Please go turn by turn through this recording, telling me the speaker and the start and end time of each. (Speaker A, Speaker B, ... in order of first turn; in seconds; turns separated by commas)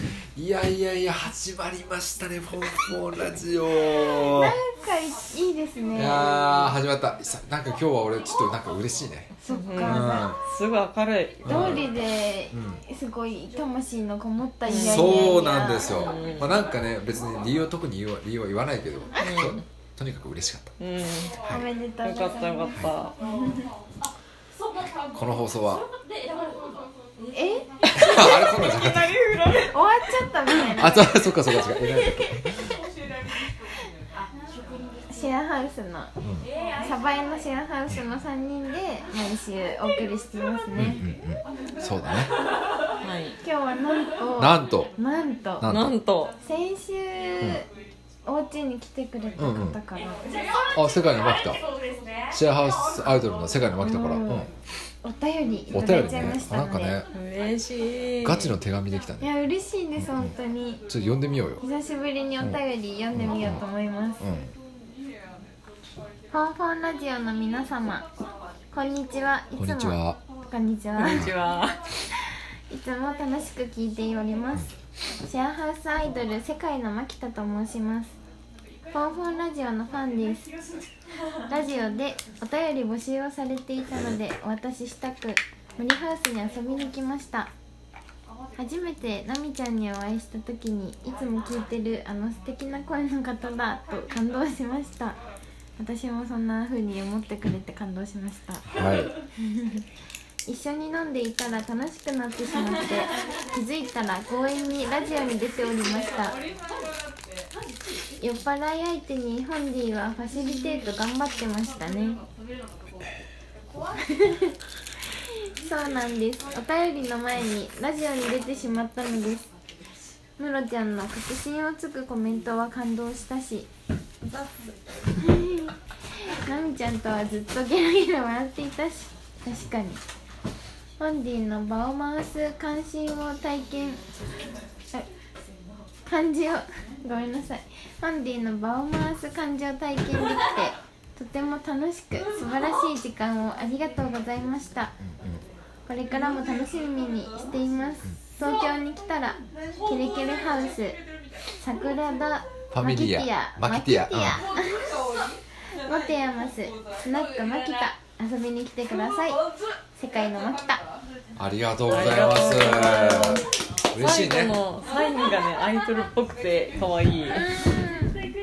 Speaker A: 0.3-4.6, Speaker B: 4.3-6.6, Speaker A: 6.0-10.4, Speaker B: 9.4-10.3, Speaker C: 9.4-11.8, Speaker A: 11.4-11.9, Speaker B: 11.4-16.0, Speaker A: 12.5-12.8, Speaker C: 14.7-16.6, Speaker A: 14.7-20.7, Speaker C: 19.2-19.6, Speaker C: 20.8-21.4, Speaker B: 21.4-23.7, Speaker C: 22.0-23.1, Speaker A: 25.1-25.9, Speaker B: 27.3-28.3, Speaker C: 27.9-29.8, Speaker A: 28.0-29.2, Speaker B: 29.7-31.4, Speaker A: 30.7-32.8, Speaker B: 35.1-36.1, Speaker A: 36.2-36.5, Speaker B: 36.8-41.0, Speaker A: 40.8-42.3, Speaker C: 43.0-43.4, Speaker B: 43.4-45.6, Speaker A: 44.4-44.9, Speaker A: 45.6-45.9, Speaker C: 45.6-46.4, Speaker B: 46.4-47.7, Speaker B: 48.3-50.2, Speaker A: 49.4-49.8, Speaker A: 50.7-51.6, Speaker A: 52.3-54.5, Speaker B: 53.8-54.5, Speaker B: 55.0-57.0, Speaker A: 55.7-57.1, Speaker C: 57.1-58.5, Speaker A: 58.2-59.3, Speaker B: 59.2-60.8, Speaker A: 60.0-60.3, Speaker A: 60.9-61.6, Speaker B: 61.6-64.2, Speaker A: 63.1-63.6, Speaker A: 64.2-64.5, Speaker B: 66.3-68.1, Speaker B: 68.7-71.3, Speaker A: 69.6-70.2, Speaker C: 71.0-71.8, Speaker B: 72.7-78.2, Speaker B: 78.9-80.5, Speaker B: 81.5-87.5, Speaker B: 88.6-95.2, Speaker B: 95.8-98.7, Speaker A: 98.7-99.1, Speaker B: 99.4-99.9, Speaker B: 100.5-106.4, Speaker B: 108.2-112.2, Speaker B: 114.0-114.6, Speaker B: 115.2-119.5, Speaker B: 120.4-123.7, Speaker B: 124.2-130.0, Speaker B: 131.0-134.0, Speaker B: 136.1-145.0, Speaker A: 145.0-145.4, Speaker B: 145.9-151.0, Speaker B: 151.6-155.0, Speaker A: 152.7-154.4, Speaker B: 155.7-159.4, Speaker B: 160.0-160.8, Speaker A: 161.4-164.6, Speaker C: 161.9-167.5, Speaker B: 167.3-168.2